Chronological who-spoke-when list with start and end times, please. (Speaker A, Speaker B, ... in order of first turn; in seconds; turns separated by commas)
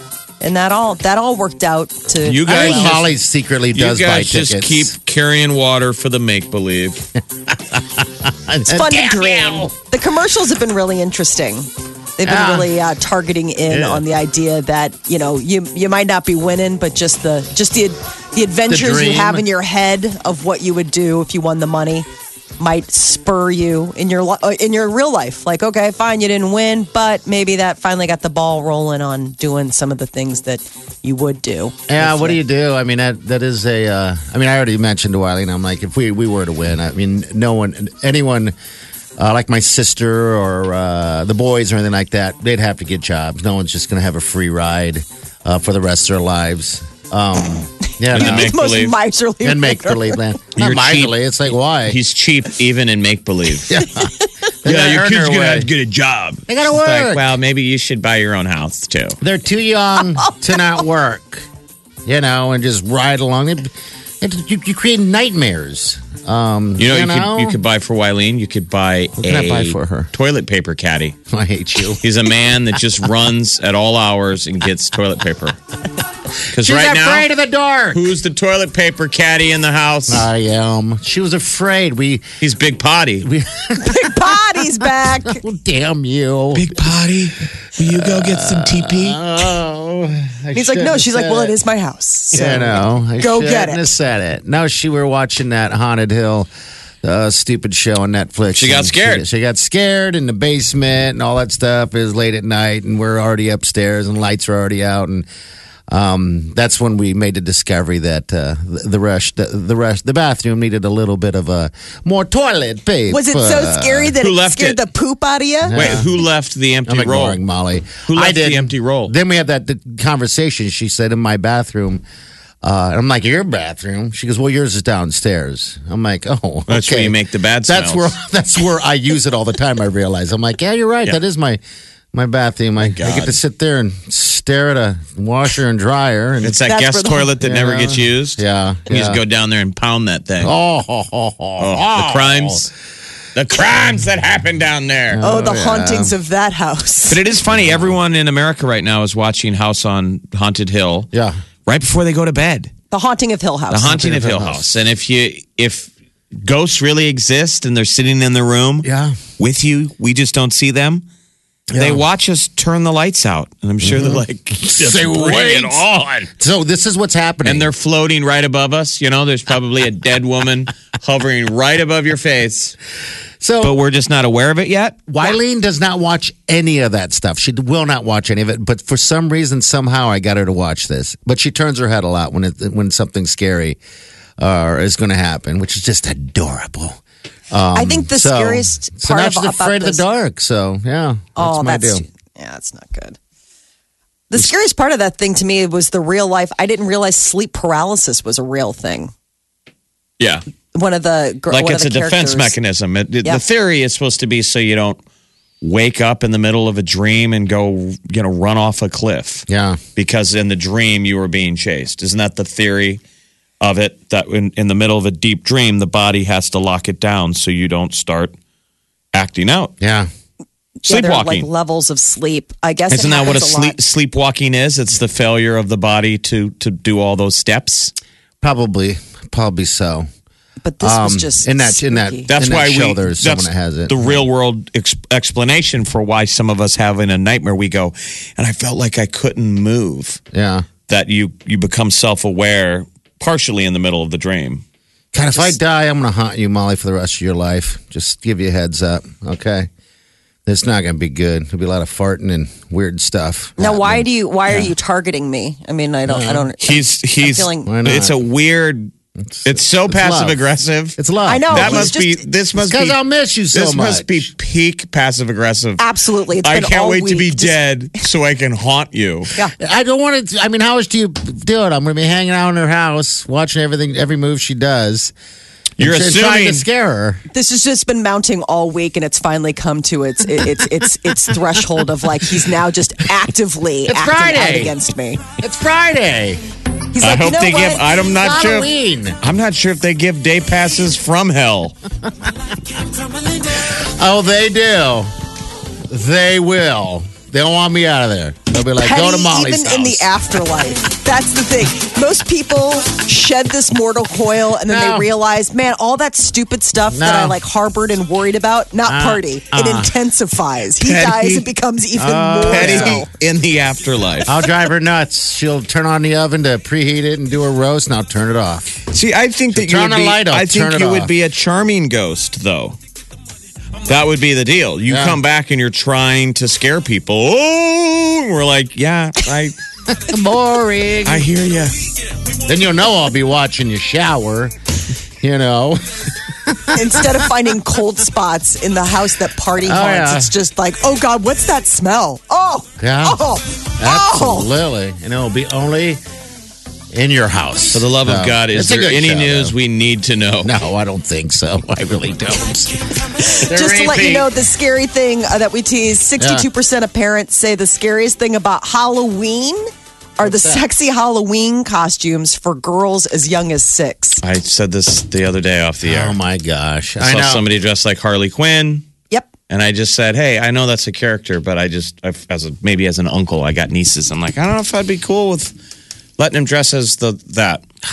Speaker A: 0.4-2.9, Speaker B: 2.2-3.1, Speaker C: 2.5-4.9, Speaker B: 3.8-7.1, Speaker C: 7.5-9.7, Speaker A: 8.7-22.1, Speaker C: 12.2-12.7, Speaker C: 13.7-14.0, Speaker C: 18.7-19.5, Speaker A: 22.6-32.4, Speaker C: 31.9-38.5, Speaker C: 39.2-48.5, Speaker A: 48.1-50.2, Speaker B: 48.1-48.9, Speaker C: 49.4-52.0, Speaker B: 50.6-51.2, Speaker B: 51.8-53.9, Speaker C: 53.7-54.1, Speaker C: 54.6-55.7, Speaker B: 54.6-59.2, Speaker C: 56.5-57.3, Speaker C: 59.2-61.5, Speaker C: 62.0-67.6, Speaker B: 66.8-71.2, Speaker C: 69.2-70.1, Speaker C: 71.3-72.0, Speaker B: 72.0-75.6, Speaker B: 76.5-77.3, Speaker C: 76.5-78.0, Speaker B: 77.9-80.3, Speaker C: 80.1-82.3, Speaker B: 82.4-83.3, Speaker C: 83.2-86.8, Speaker A: 83.8-85.4, Speaker B: 86.5-89.2, Speaker C: 87.8-91.5, Speaker A: 90.5-92.5, Speaker C: 92.3-96.5, Speaker B: 92.3-92.7, Speaker A: 93.2-93.9, Speaker C: 97.0-105.3, Speaker B: 98.5-99.2, Speaker C: 105.9-114.1, Speaker A: 113.1-115.9, Speaker B: 114.2-114.8, Speaker C: 115.7-116.1, Speaker B: 115.8-117.4, Speaker C: 116.9-122.0, Speaker B: 118.0-119.1, Speaker C: 122.6-131.6, Speaker B: 126.7-128.2, Speaker C: 132.1-136.6, Speaker B: 132.8-133.4, Speaker B: 136.4-140.5, Speaker A: 136.7-137.3, Speaker C: 137.4-139.2, Speaker C: 140.4-142.7, Speaker B: 141.6-142.7, Speaker B: 143.3-145.2, Speaker C: 145.1-146.2, Speaker A: 145.2-147.2, Speaker B: 147.1-151.1, Speaker C: 147.5-148.0, Speaker C: 151.1-151.4, Speaker B: 151.7-152.7, Speaker A: 152.9-154.0, Speaker B: 153.7-161.0, Speaker C: 153.9-154.7, Speaker C: 158.8-159.2, Speaker C: 161.7-162.0, Speaker B: 161.7-166.2, Speaker C: 163.8-167.7, Speaker B: 167.4-172.8, Speaker C: 173.4-173.8, Speaker B: 173.6-175.1, Speaker C: 175.1-183.8, Speaker C: 184.4-192.1, Speaker A: 187.8-190.0, Speaker A: 191.4-193.2, Speaker A: 194.3-199.1, Speaker A: 200.7-202.6, Speaker B: 201.5-205.0, Speaker B: 205.6-213.0, Speaker C: 209.5-209.8, Speaker B: 213.6-218.3, Speaker B: 219.1-219.7, Speaker C: 219.8-220.1, Speaker A: 220.8-223.8, Speaker B: 220.9-221.5, Speaker B: 222.9-227.9, Speaker C: 228.4-230.1, Speaker A: 230.6-232.3, Speaker C: 230.8-234.3, Speaker B: 232.3-240.2, Speaker C: 240.3-240.7, Speaker B: 240.9-244.6, Speaker C: 245.1-249.7, Speaker C: 250.5-254.7, Speaker A: 253.6-257.7, Speaker C: 256.1-256.5, Speaker B: 256.6-258.9, Speaker C: 257.7-258.2, Speaker C: 259.2-260.4, Speaker B: 259.4-261.0, Speaker C: 261.0-261.9, Speaker A: 261.3-262.2, Speaker B: 261.5-263.0, Speaker C: 262.6-264.3, Speaker B: 263.5-265.8, Speaker A: 265.8-267.6, Speaker B: 266.4-269.3, Speaker C: 269.6-275.1, Speaker B: 275.8-276.6, Speaker C: 275.8-277.2, Speaker A: 277.3-285.2, Speaker C: 283.9-284.8, Speaker C: 285.4-286.4, Speaker A: 286.9-287.8, Speaker B: 287.0-291.8, Speaker C: 288.2-289.2, Speaker C: 293.4-295.1, Speaker C: 295.9-300.1, Speaker A: 298.5-313.1, Speaker C: 304.7-305.1, Speaker C: 306.9-307.4, Speaker C: 308.9-309.9, Speaker B: 310.8-311.4, Speaker C: 312.0-313.1, Speaker B: 312.5-314.4, Speaker C: 314.2-318.9, Speaker B: 318.9-322.8, Speaker C: 319.5-321.1, Speaker B: 323.9-329.6, Speaker C: 324.9-325.2, Speaker C: 329.9-331.3, Speaker B: 331.1-331.8, Speaker C: 332.5-334.5, Speaker C: 335.2-337.3, Speaker A: 336.7-344.5, Speaker C: 339.6-340.3, Speaker C: 342.8-343.2, Speaker C: 343.8-346.0, Speaker C: 346.9-349.6, Speaker B: 347.7-350.5, Speaker C: 350.4-352.8, Speaker A: 353.2-359.7, Speaker C: 353.4-354.3, Speaker C: 356.2-356.5, Speaker A: 360.2-364.2, Speaker C: 360.2-360.6, Speaker B: 364.2-366.2, Speaker C: 365.8-367.5, Speaker B: 367.0-368.9, Speaker B: 369.5-375.6, Speaker B: 376.2-377.6